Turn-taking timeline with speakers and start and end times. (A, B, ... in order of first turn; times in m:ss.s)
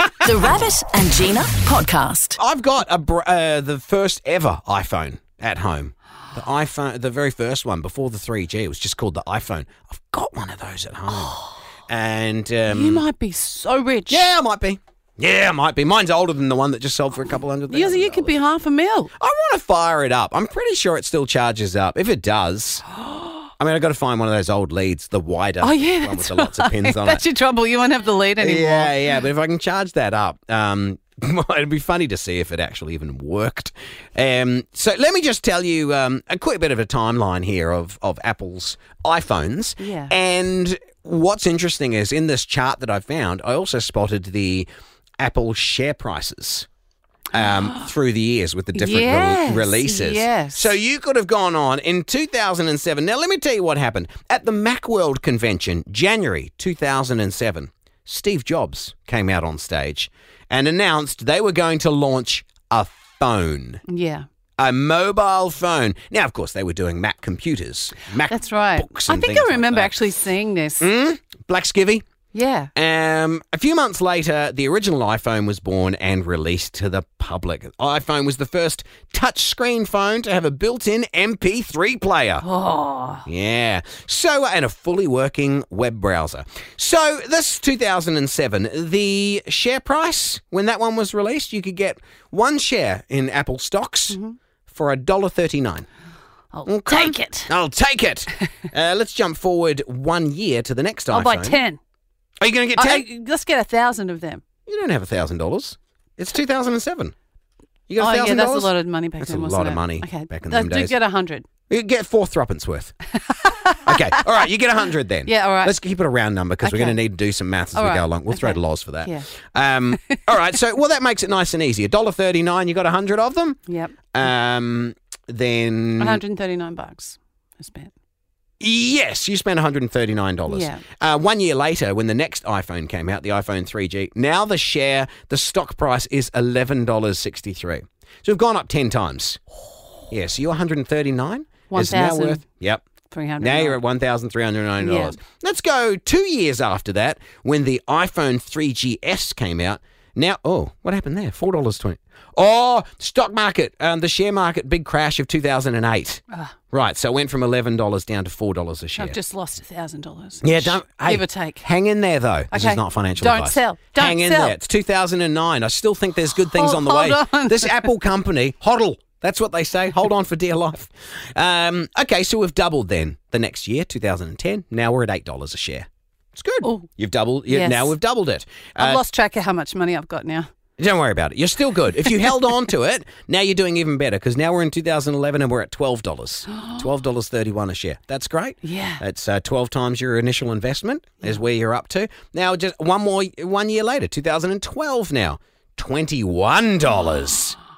0:00.2-0:02.4 A
0:02.4-0:13.0 B
0:12.7-0:14.3 C
0:14.1-0:18.3 B
0:17.7-0:19.1 C
0:19.2-0:22.8 B
0:23.6-0:27.2 B
0:25.6-0:29.0 C
0:28.4-0:44.7 B
0:39.8-0:40.1 C
0:45.2-0:46.7 B
0:47.3-1:03.8 B
0:47.3-0:47.9 C
0:48.7-0:50.7 C
1:03.9-1:04.2 C
1:04.6-1:10.1 B
1:08.2-1:10.9 C
1:10.8-1:12.0 B
1:12.3-1:12.7 C
1:12.7-1:22.4 B
1:22.4-1:23.2 C
1:23.2-1:34.2 B
1:34.1-1:34.4 C
1:34.7-1:35.8 B
1:36.5-1:37.5 C
1:36.6-1:41.6 B
1:41.1-1:41.8 C
1:42.4-1:43.1 B
1:42.7-1:44.4 C
1:44.6-1:47.1 B
1:47.9-1:51.0 B
1:48.0-1:51.4 C
1:51.7-1:52.9 B
1:53.3-1:54.1 C
1:53.8-2:03.6 B
1:55.2-1:55.8 C
1:56.6-1:57.0 C
1:57.7-1:59.2 C
2:03.7-2:03.9 C
2:04.1-2:06.2 B
2:06.0-2:07.9 C
2:08.6-2:19.4 B
2:10.5-2:10.8 C
2:20.1-2:22.8 B
2:21.7-2:22.4 C
2:23.1-2:23.8 C
2:23.4-2:39.2 B
2:24.8-2:25.2 C
2:39.0-2:41.7 C
2:40.4-2:59.0 B
2:42.5-2:44.6 C
2:46.5-2:47.9 C
2:56.6-2:56.9 C
2:57.5-2:57.9 C
2:58.8-3:00.5 C
3:00.8-3:17.6 B
3:08.6-3:09.0 C